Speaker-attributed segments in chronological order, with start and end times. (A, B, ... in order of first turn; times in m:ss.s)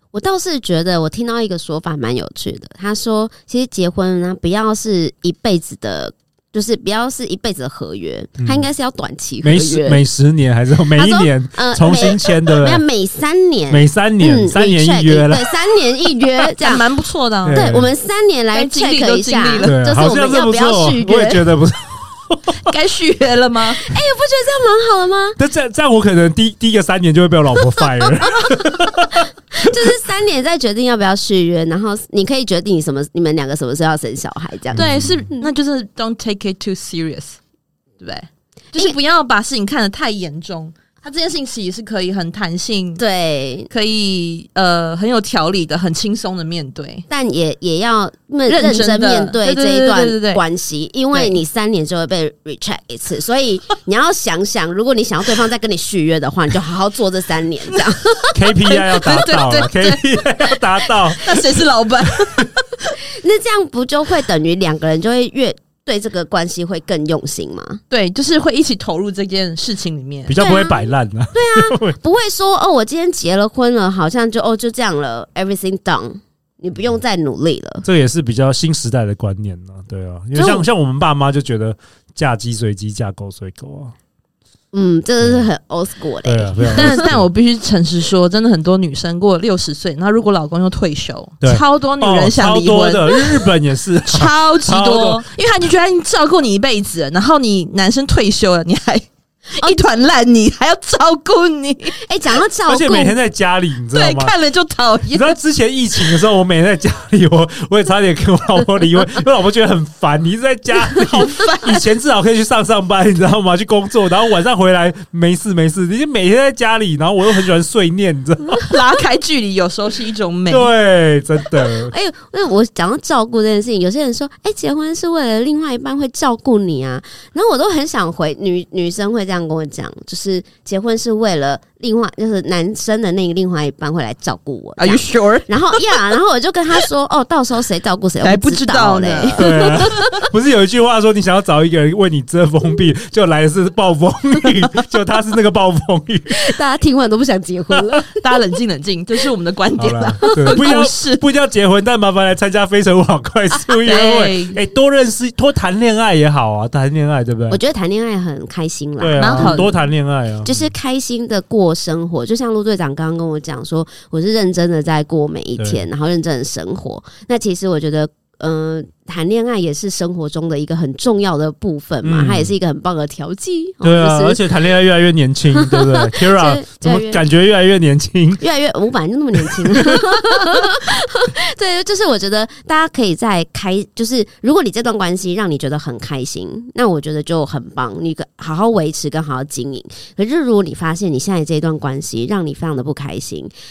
0:00.1-0:10.0 A
0:08.4-0:08.7 B
0:09.4-0:12.8 B
0:11.0-0:16.8 A
0:13.7-0:15.5 B
0:16.4-0:17.7 C
0:17.4-0:17.9 B
0:17.5-0:21.5 A
0:18.5-0:19.8 C
0:19.6-0:22.6 B
0:22.6-0:23.8 C
0:23.8-0:25.4 A
0:25.4-0:29.9 B
0:29.5-0:35.5 A
0:34.7-0:35.3 B
0:34.8-0:37.4 C
0:38.0-0:43.0 C
0:43.0-0:43.7 A
0:43.7-0:47.1 C
0:47.1-0:58.3 A
0:48.5-0:50.4 C
0:51.1-0:51.4 C
0:58.1-1:00.0 C
0:58.3-1:01.4 B
1:00.8-1:02.9 C
1:03.1-1:07.8 A
1:07.9-1:10.4 C
1:10.3-1:12.0 B
1:10.4-1:17.9 A
1:17.8-1:23.9 B
1:20.4-1:20.7 A
1:24.7-1:27.0 A
1:25.2-1:25.5 B
1:26.2-1:27.3 B
1:26.7-1:33.5 C
1:31.4-1:35.2 B
1:34.1-1:42.0 C
1:39.6-1:39.8 A
1:42.0-1:43.2 A
1:42.7-1:44.3 B
1:43.9-1:45.4 C
1:45.1-1:58.8 B
1:50.9-1:51.8 C
1:58.6-2:00.7 C
2:00.5-2:01.9 B
2:01.9-2:20.1 A
2:14.8-2:16.1 C
2:18.2-2:20.0 C
2:19.4-2:26.5 B
2:26.3-2:28.1 A
2:28.2-2:31.2 C
2:29.8-2:37.6 B
2:33.7-2:34.6 C
2:37.5-2:39.8 A
2:39.0-2:40.7 B
2:39.2-2:39.7 C
2:40.4-2:54.4 A
2:45.6-2:45.8 B
2:52.0-2:52.5 B
2:53.8-2:58.4 B
2:55.5-2:57.2 A
2:58.4-3:13.5 A
2:59.4-3:00.3 B